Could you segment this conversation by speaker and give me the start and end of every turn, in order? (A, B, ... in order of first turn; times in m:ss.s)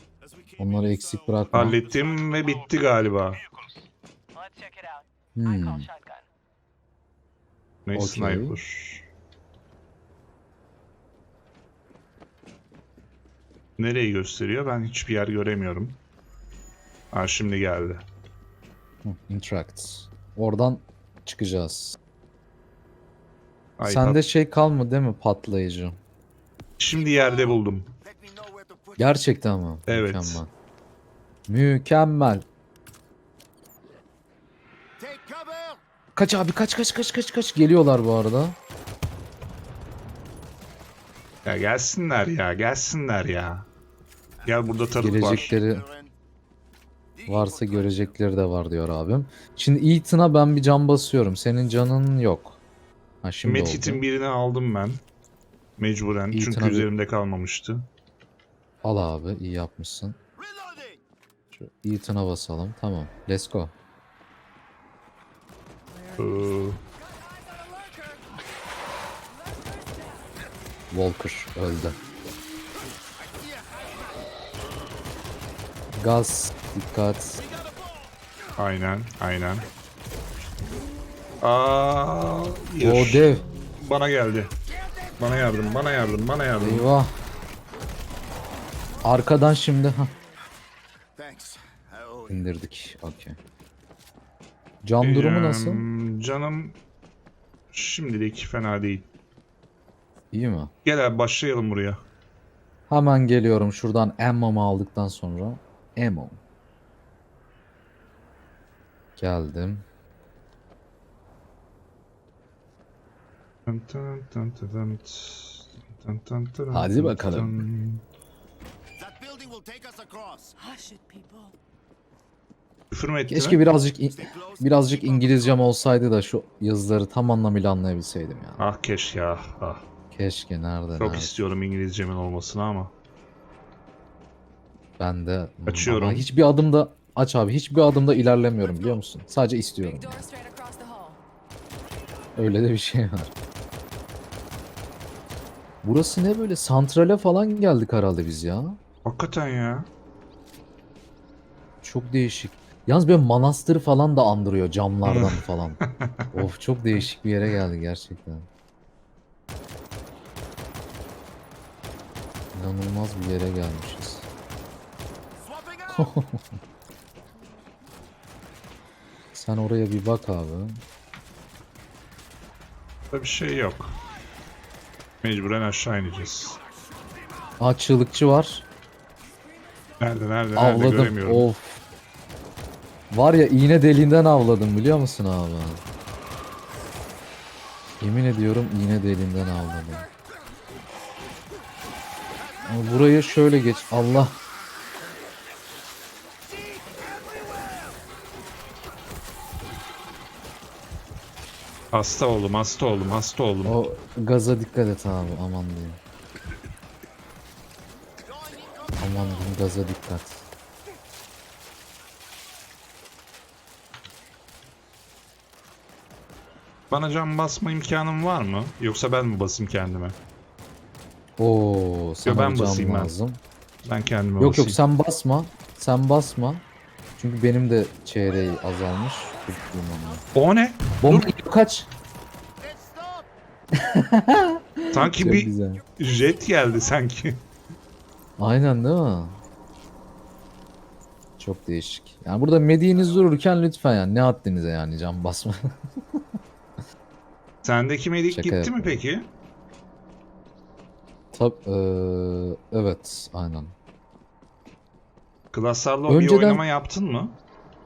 0:00.2-0:02.7 A
0:00.6-0:01.8 B
0:01.5-0:03.4 C
0:04.3-0:06.2 D
0:05.4-0:05.9 B
0:07.8-0:09.0 C
0:07.9-0:08.6 B
0:13.8-0:16.0 C
0:17.1-0:18.0 C
0:19.0-0:22.0 B
0:23.8-0:24.2 C
0:23.8-0:26.0 B
0:26.8-0:27.9 C
0:26.9-0:29.1 A
0:29.0-0:30.5 B
0:29.9-0:30.4 C
0:31.5-0:32.4 B
0:35.0-0:35.8 A
0:36.2-0:38.6 B
0:41.4-0:43.7 C
0:44.4-0:46.1 A
0:44.4-0:45.5 C
0:45.0-0:45.8 B
0:47.2-0:48.1 A
0:47.3-0:52.6 B
0:53.2-0:54.0 B
0:53.4-0:55.0 C
0:55.8-0:57.9 C
0:56.3-0:56.9 B
0:58.8-1:00.2 B
1:00.4-1:01.0 A
1:01.5-1:03.7 B
1:05.9-1:08.4 D
1:06.2-1:06.8 C
1:09.3-1:10.4 D
1:10.9-1:12.0 B
1:13.2-1:14.3 A
1:16.0-1:17.4 B
1:17.4-1:17.9 A
1:18.6-1:19.7 C
1:21.4-1:23.3 C
1:22.8-1:23.4 B
1:23.8-1:24.5 C
1:25.2-1:26.9 C
1:26.6-1:27.1 B
1:29.0-1:30.1 B
1:31.2-1:32.4 A
1:32.3-1:33.4 B
1:34.8-1:35.8 B
1:35.0-1:36.8 C
1:37.7-1:39.0 C
1:40.3-1:40.7 B
1:40.8-1:42.0 C
1:42.9-1:46.4 B
1:49.2-1:49.8 B
1:53.6-1:58.0 C
1:56.7-1:57.6 B
1:59.0-2:00.5 A
2:00.6-2:01.5 D
2:02.9-2:03.6 C
2:03.3-2:08.6 B
2:04.0-2:05.7 A
2:08.6-2:09.8 C
2:10.1-2:11.3 B
2:11.0-2:12.9 C
2:15.0-2:20.2 B
2:15.6-2:16.3 C
2:18.7-2:19.0 D
2:19.8-2:21.2 D
2:22.4-2:23.3 B
2:25.8-2:28.8 B
2:29.0-2:29.9 C
2:31.8-2:35.8 B
2:35.0-2:36.4 C
2:36.3-2:38.5 B
2:42.5-2:44.3 B
2:45.4-2:46.1 A
2:45.9-2:46.4 B
2:49.3-2:50.8 B
2:53.1-2:53.9 C
2:55.2-2:56.6 C
2:57.2-2:57.5 A
2:57.6-2:58.6 B
3:00.0-3:01.5 C
3:00.6-3:01.8 B
3:03.1-3:05.8 B
3:08.0-3:10.1 B
3:12.4-3:14.3 A
3:12.6-3:14.4 B
3:21.9-3:23.8 C
3:23.6-3:26.0 B
3:28.3-3:29.2 A
3:29.0-3:30.4 B
3:36.9-3:40.2 C
3:41.4-3:43.4 B
3:42.2-3:43.1 C
3:43.8-3:44.8 C
3:44.4-3:46.6 B
3:47.2-3:50.2 B
3:50.3-3:51.3 C
3:51.0-3:51.9 B
3:52.6-3:53.3 A
3:53.7-3:55.8 B
3:54.9-3:57.4 C
3:58.4-3:59.4 B
4:01.4-4:06.2 B
4:07.6-4:09.3 C
4:08.3-4:09.0 B
4:11.3-4:13.7 B
4:15.5-4:17.3 C
4:16.1-4:16.6 B